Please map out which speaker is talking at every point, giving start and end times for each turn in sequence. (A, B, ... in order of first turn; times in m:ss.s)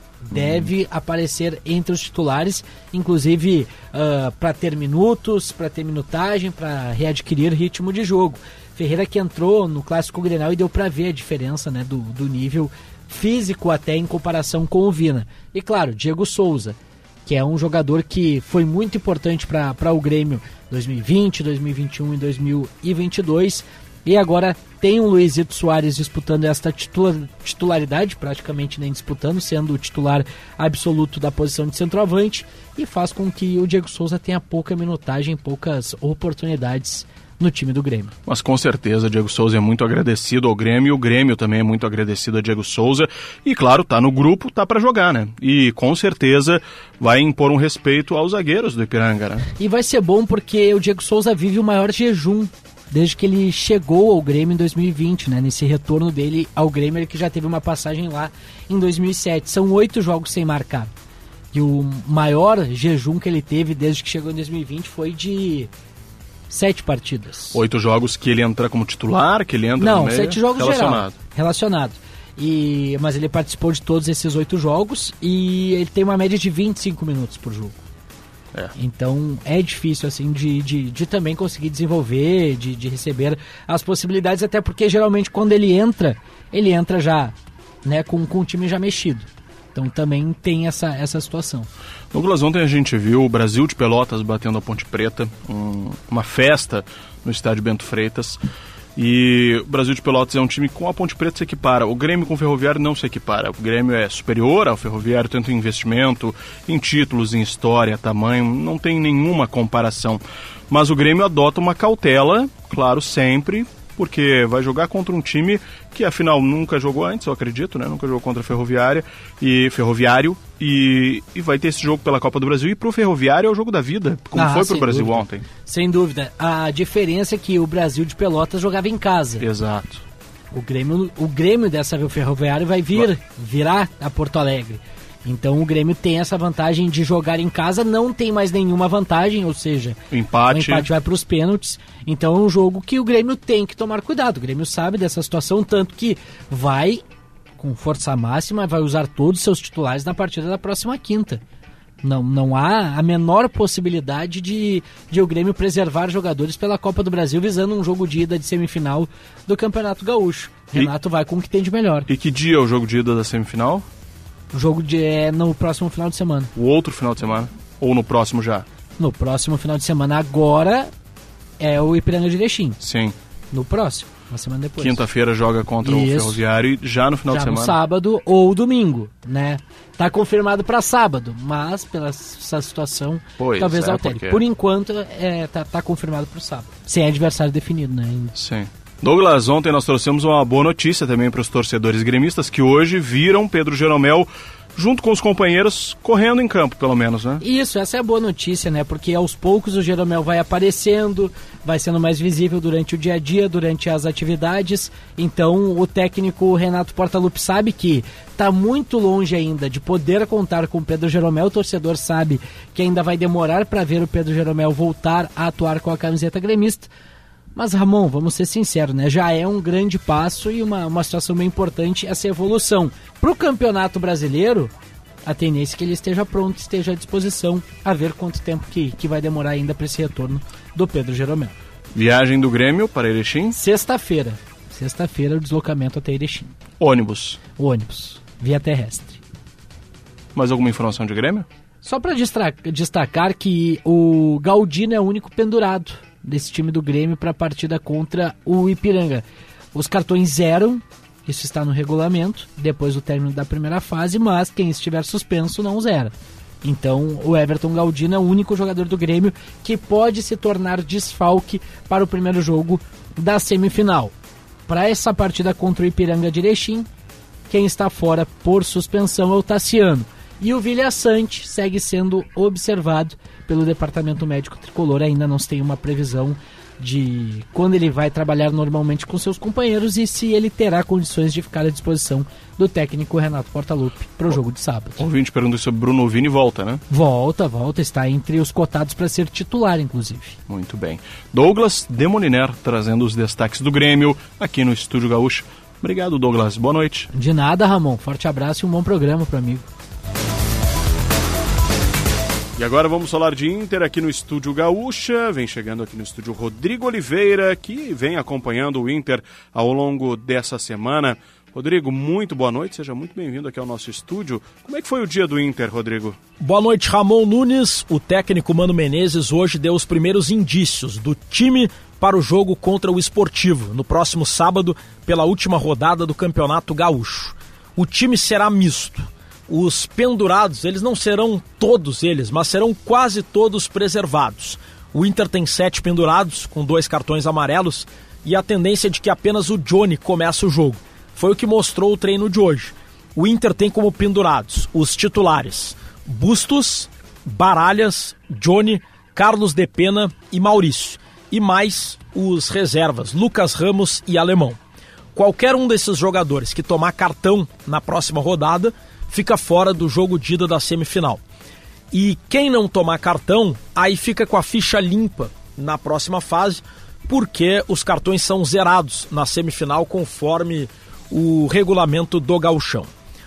0:00.2-0:38.1 A
0:00.3-0:00.7 B
0:38.2-0:49.5 B
0:49.6-1:00.9 A
1:01.5-1:05.7 A
1:06.5-1:07.6 A
1:07.5-1:11.1 B
1:09.8-1:17.8 A
1:18.8-1:27.3 A
1:27.8-1:31.7 A
1:32.1-1:38.4 B
1:39.0-2:05.4 B
2:04.3-2:09.4 A
2:09.4-2:10.0 B
2:10.5-2:20.0 A
2:20.1-2:20.8 B
2:20.5-2:27.0 A
2:27.6-2:31.4 A
2:32.0-2:42.1 A
2:42.1-2:43.8 B
2:44.5-2:46.5 A
2:46.6-2:48.6 B
2:49.0-2:50.9 A
2:51.6-2:52.8 A
2:52.8-2:53.2 B
2:53.5-2:55.0 A
2:54.8-2:57.8 B
2:55.8-2:56.4 A
2:57.3-3:08.3 A
3:03.4-3:04.4 B
3:08.4-3:17.4 B
3:17.4-3:36.9 A
3:37.6-3:44.7 A
3:45.2-3:51.5 A
3:51.9-3:53.6 B
3:53.5-3:56.5 A
3:56.8-3:57.4 B
3:57.6-3:59.2 A
4:00.3-4:01.4 B
4:01.8-4:24.1 A
4:24.7-4:26.9 A
4:27.5-4:45.0 A
4:45.0-4:46.8 B
4:46.9-4:50.4 A
4:50.5-4:57.1 B
4:57.1-4:59.6 A
5:02.6-5:16.2 B
5:16.4-5:54.6 C
5:55.1-6:01.2 C
6:01.9-6:12.9 C